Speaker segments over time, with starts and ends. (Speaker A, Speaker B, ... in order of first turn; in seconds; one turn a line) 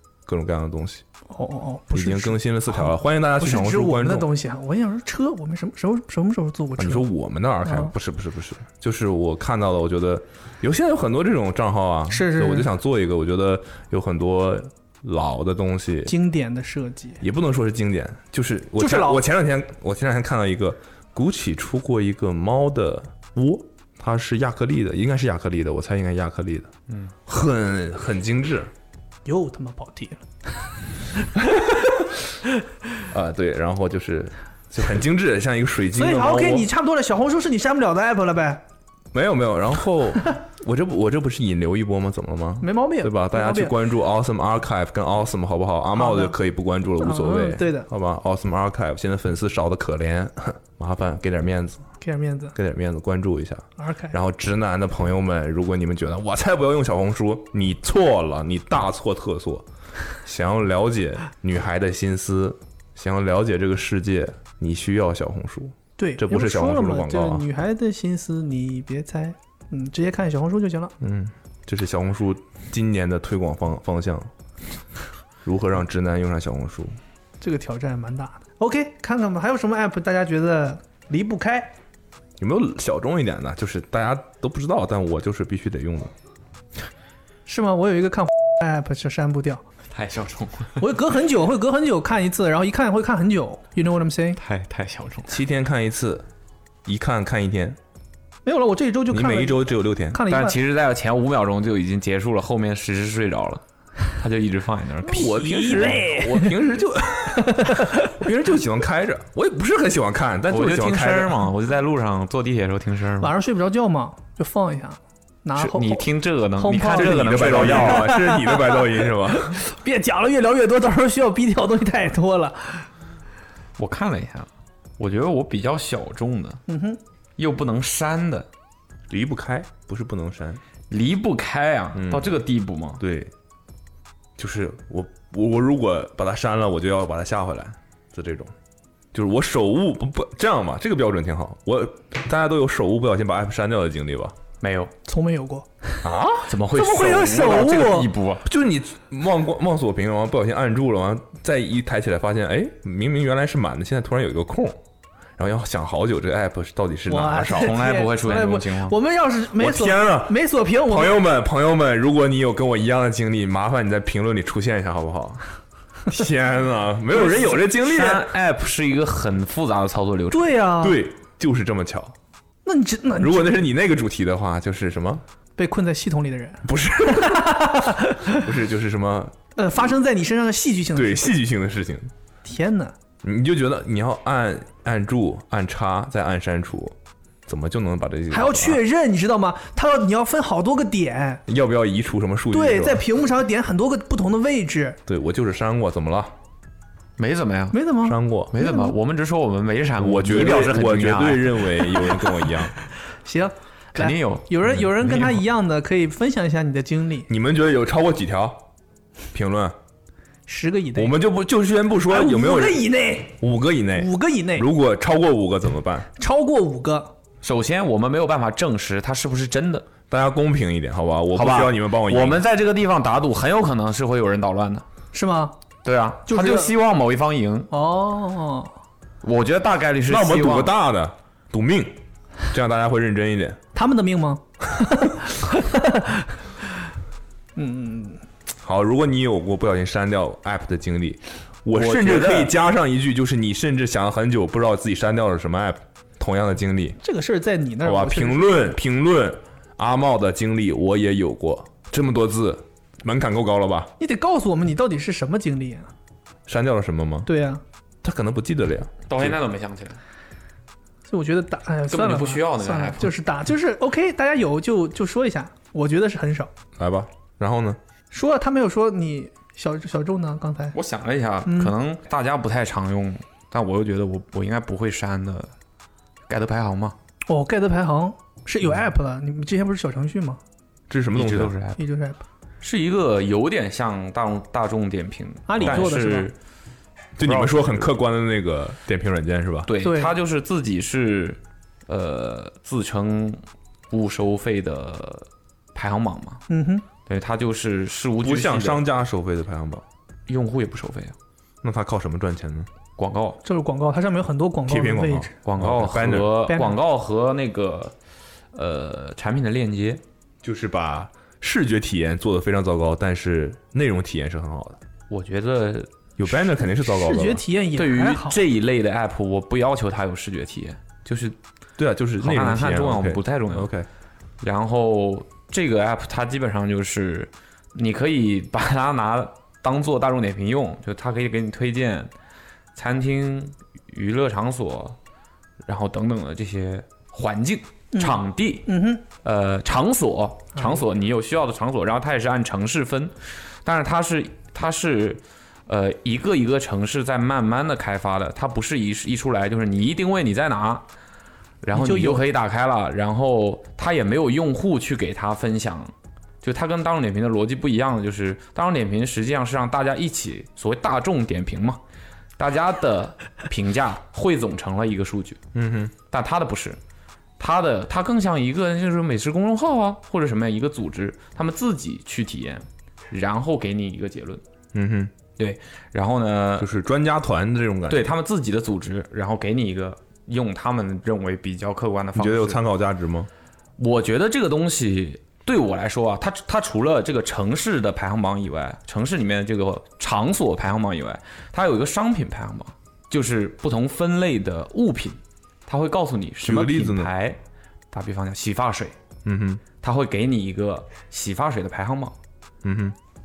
Speaker A: 0.2-1.0
Speaker B: 1.3-7.0
Speaker A: 1.9-4.3
Speaker A: 6.8-16.1
Speaker B: 7.6-7.9
Speaker B: 12.1-12.7
Speaker B: 16.1-17.2
Speaker A: 17.2-26.7
Speaker B: 18.8-19.2
Speaker A: 27.2-28.7
Speaker B: 29.2-30.2
Speaker A: 31.4-32.0
Speaker A: 33.1-36.7
Speaker B: 35.9-38.6
Speaker A: 39.1-51.9
Speaker B: 42.6-43.7
Speaker B: 45.9-46.4
Speaker B: 47.0-47.9
Speaker B: 52.0-52.5
Speaker A: 52.5-59.6
Speaker B: 53.8-54.1
Speaker A: 60.2-67.4
Speaker B: 66.0-70.9
Speaker A: 71.0-74.3
Speaker A: 75.4-77.0
Speaker B: 77.4-81.7
Speaker A: 82.4-86.1
Speaker B: 87.5-89.6
Speaker C: 89.9-90.9
Speaker B: 90.8-94.4
Speaker C: 94.4-95.3
Speaker A: 95.3-96.2
Speaker A: 96.8-97.8
Speaker B: 98.4-100.6
Speaker A: 99.1-100.2
Speaker C: 100.3-105.9
Speaker A: 105.1-111.5
Speaker B: 105.1-106.5
Speaker B: 107.4-108.1
Speaker C: 110.5-113.3
Speaker B: 113.2-122.9
Speaker C: 115.5-118.1
Speaker A: 116.9-119.6
Speaker C: 123.8-124.5
Speaker C: 125.0-126.6
Speaker B: 126.7-127.0
Speaker C: 127.4-128.5
Speaker A: 129.1-130.6
Speaker C: 130.9-133.0
Speaker A: 131.9-132.4
Speaker A: 133.0-133.3
Speaker A: 134.4-138.5
Speaker A: 139.1-144.4
Speaker C: 144.6-144.9
Speaker B: 145.0-146.0
Speaker A: 146.0-146.5
Speaker C: 146.4-148.4
Speaker B: 146.7-148.1
Speaker A: 148.4-154.8
Speaker A: 155.4-157.8
Speaker B: 157.1-161.2
Speaker C: 157.4-158.9
Speaker A: 159.6-165.4
Speaker A: 166.1-168.2
Speaker C: 167.1-170.5
Speaker B: 170.3-171.0
Speaker A: 170.8-172.1
Speaker B: 172.6-173.6
Speaker A: 173.2-175.2
Speaker B: 175.6-178.4
Speaker A: 176.6-177.7
Speaker A: 178.2-179.3
Speaker B: 179.6-181.3
Speaker A: 180.9-182.1
Speaker B: 182.4-182.9
Speaker A: 183.2-186.9
Speaker A: 187.5-188.8
Speaker B: 188.3-191.4
Speaker A: 191.5-193.0
Speaker B: 192.5-195.0
Speaker A: 195.1-196.3
Speaker C: 197.2-197.8
Speaker B: 197.7-198.9
Speaker A: 198.0-198.5
Speaker C: 198.5-202.2
Speaker A: 200.0-202.7
Speaker B: 203.2-207.3
Speaker C: 203.9-204.5
Speaker A: 207.3-208.7
Speaker A: 209.3-209.8
Speaker B: 210.5-211.1
Speaker A: 210.9-216.1
Speaker B: 212.1-213.4
Speaker B: 213.9-214.7
Speaker B: 216.2-217.1
Speaker C: 217.4-219.9
Speaker A: 220.1-222.4
Speaker C: 221.3-224.8
Speaker B: 225.1-225.5
Speaker C: 225.8-227.7
Speaker B: 226.3-226.7
Speaker B: 227.7-228.7
Speaker C: 229.2-230.7
Speaker A: 230.1-233.6
Speaker B: 233.7-236.4
Speaker B: 237.6-238.2
Speaker A: 238.6-247.0
Speaker C: 241.7-242.5
Speaker B: 247.0-248.7
Speaker A: 247.8-253.9
Speaker B: 254.0-255.9
Speaker A: 256.5-257.3
Speaker B: 257.2-257.6
Speaker A: 258.0-259.4
Speaker C: 259.1-260.0
Speaker B: 261.1-266.5
Speaker C: 261.9-263.1
Speaker A: 266.8-267.8
Speaker B: 268.1-270.8
Speaker C: 270.7-275.5
Speaker B: 271.4-271.7
Speaker C: 276.3-276.9
Speaker B: 277.3-280.4
Speaker A: 280.9-281.6
Speaker C: 281.1-281.8
Speaker B: 281.8-282.2
Speaker C: 282.6-286.4
Speaker B: 285.5-286.3
Speaker A: 285.6-285.9
Speaker A: 287.2-289.7
Speaker C: 287.2-287.9
Speaker C: 289.7-296.4
Speaker B: 289.8-290.1
Speaker B: 296.5-296.9
Speaker C: 297.1-298.8
Speaker A: 298.2-299.8
Speaker C: 300.3-301.1
Speaker A: 301.6-302.7
Speaker C: 303.0-303.4
Speaker B: 303.4-305.3
Speaker A: 304.7-306.4
Speaker C: 305.4-307.9
Speaker B: 306.5-306.8
Speaker C: 308.5-310.0
Speaker A: 310.4-314.8
Speaker C: 315.1-315.9
Speaker A: 316.2-317.4
Speaker B: 316.7-318.4
Speaker C: 317.7-321.4
Speaker A: 321.8-323.9
Speaker C: 322.2-323.7
Speaker C: 324.4-332.1
Speaker C: 332.7-335.0
Speaker C: 335.6-338.7
Speaker B: 337.9-339.0
Speaker C: 339.2-350.9
Speaker B: 340.5-340.8
Speaker C: 351.6-361.8
Speaker B: 351.7-352.2
Speaker C: 362.4-365.4
Speaker A: 365.5-365.9
Speaker C: 366.1-366.8
Speaker C: 367.4-374.4
Speaker A: 374.7-375.1
Speaker C: 375.4-376.7
Speaker A: 376.6-378.1
Speaker C: 377.9-382.6
Speaker A: 382.1-383.3
Speaker C: 383.8-397.4
Speaker A: 396.4-397.1
Speaker C: 397.9-398.9
Speaker A: 399.2-399.6
Speaker C: 399.8-402.1
Speaker A: 402.6-402.9